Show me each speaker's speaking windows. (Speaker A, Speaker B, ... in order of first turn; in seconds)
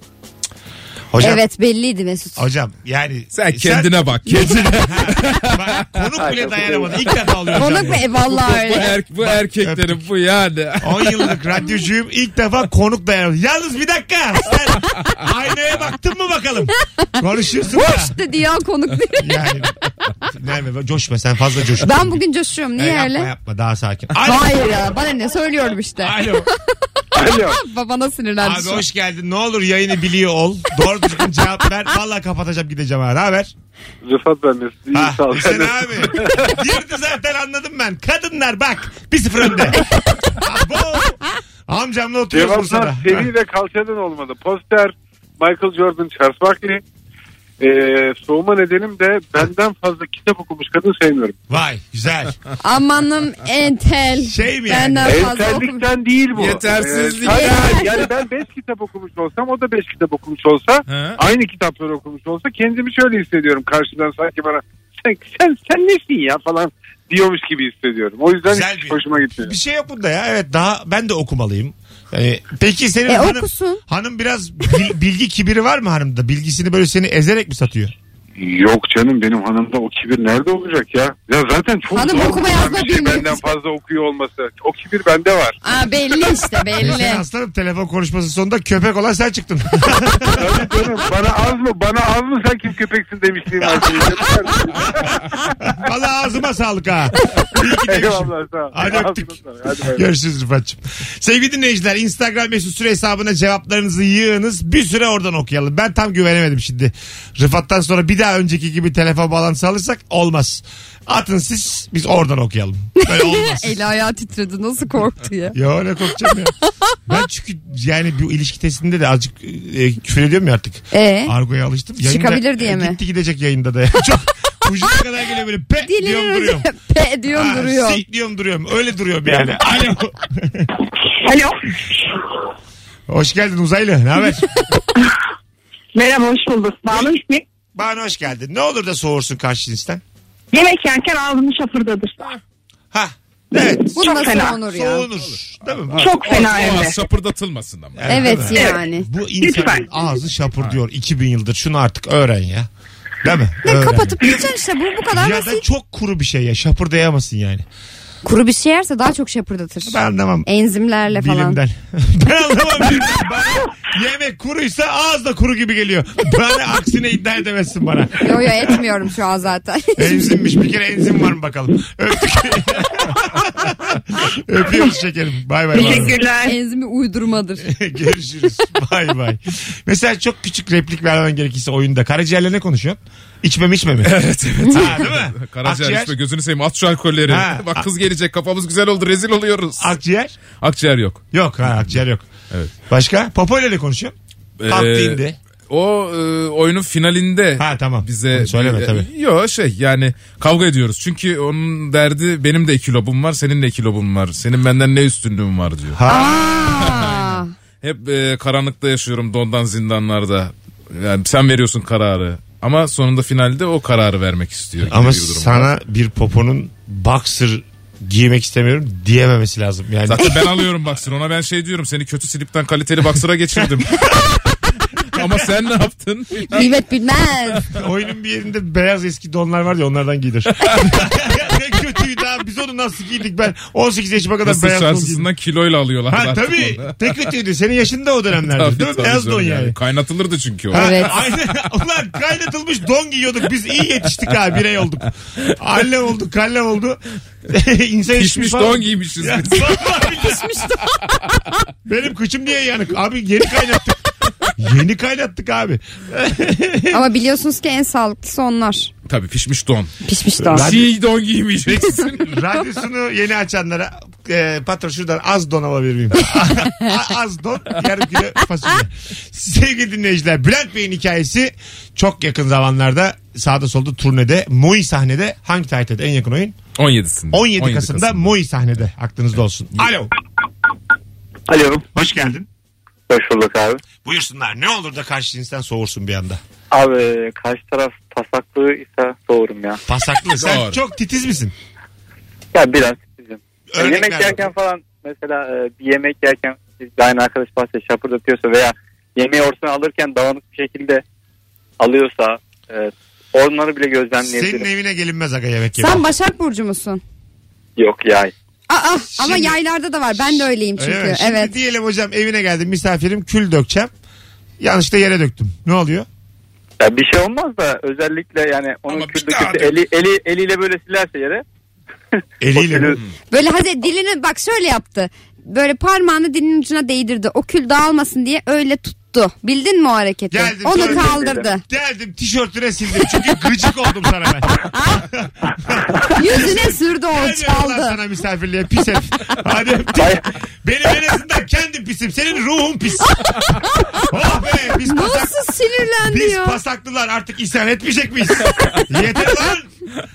Speaker A: 1.1-1.4, 2.4-8.0, 9.2-10.0, 10.8-18.2, 19.2-22.2, 22.8-24.8, 26.0-26.5, 28.4-33.5, 34.9-43.3, 51.5-52.4, 54.2-55.3, 68.5-77.9, 86.7-90.7, 93.7-94.2, 95.6-113.8, 115.5-116.5, 117.1-126.7, 127.3-130.7, 133.1-134.5, 137.8-140.0, 142.9-146.4, 148.0-152.7, 153.2-154.3, 155.1-157.6, 159.8-160.5, 161.1-168.8, 170.0-176.2, 177.6-184.2, 184.7-186.1, 187.3-187.9, 189.8-190.4, 191.3-192.3, 192.9-194.1, 194.7-195.4, 197.6-199.1, 205.9-206.6, 214.8-220.3, 227.7-235.3, 236.1-239.8, 240.7-250.6, 251.8-254.0, 254.6-257.0, 260.4-260.9, 262.0-276.6, 277.3-280.1, 281.9-282.5, 284.0-286.4, 289.9-291.5, 293.7-294.5, 304.2-306.1, 309.1-309.6, 310.2-313.9, 314.6-316.1, 322.4-323.0, 330.3-343.3, 344.0-345.4, 346.0-349.7
Speaker B: 1.2-2.5, 7.5-9.0, 17.7-19.6, 21.8-23.3, 24.2-26.5, 27.1-28.8, 52.6-55.9, 57.2-57.9, 73.1-73.8, 81.9-83.4, 85.6-87.2, 113.0-115.6, 120.9-121.3, 122.0-123.0, 125.8-128.0, 143.9-145.1, 148.1-149.1, 153.6-155.6, 158.2-161.6, 168.2-170.4, 175.8-177.7, 206.1-207.5, 226.5-227.7, 240.7-241.1, 250.0-250.8, 256.9-258.9, 260.0-260.8, 305.8-307.0, 308.7-311.6, 323.3-331.6, 336.1-338.0, 343.4-344.0, 344.9-346.6
Speaker C: 3.3-6.0, 8.2-11.4, 56.4-58.1, 60.9-61.2, 146.0-148.1, 184.0-189.9, 190.6-191.9, 194.6-206.0, 206.8-215.7, 220.1-224.3, 225.1-226.7, 234.4-236.9, 238.5-241.1, 248.1-249.8, 259.1-259.9, 260.5-262.4, 276.8-278.3, 290.4-290.8, 318.9-319.8
Speaker D: 27.1-27.6, 34.0-36.5, 42.3-46.8, 47.6-51.4, 55.0-69.5, 78.4-85.6, 90.3-95.2, 97.3-100.1
Speaker E: 131.2-132.2, 135.9-137.4, 140.5-142.3, 143.7-144.6, 145.9-147.0, 148.5-148.8, 149.4-150.2, 175.7-176.6
Speaker F: 281.5-281.8, 283.1-283.8, 286.7-289.8, 292.5-301.0, 301.8-304.7, 307.8-308.3, 316.8-321.4, 322.5-323.0, 330.7-331.4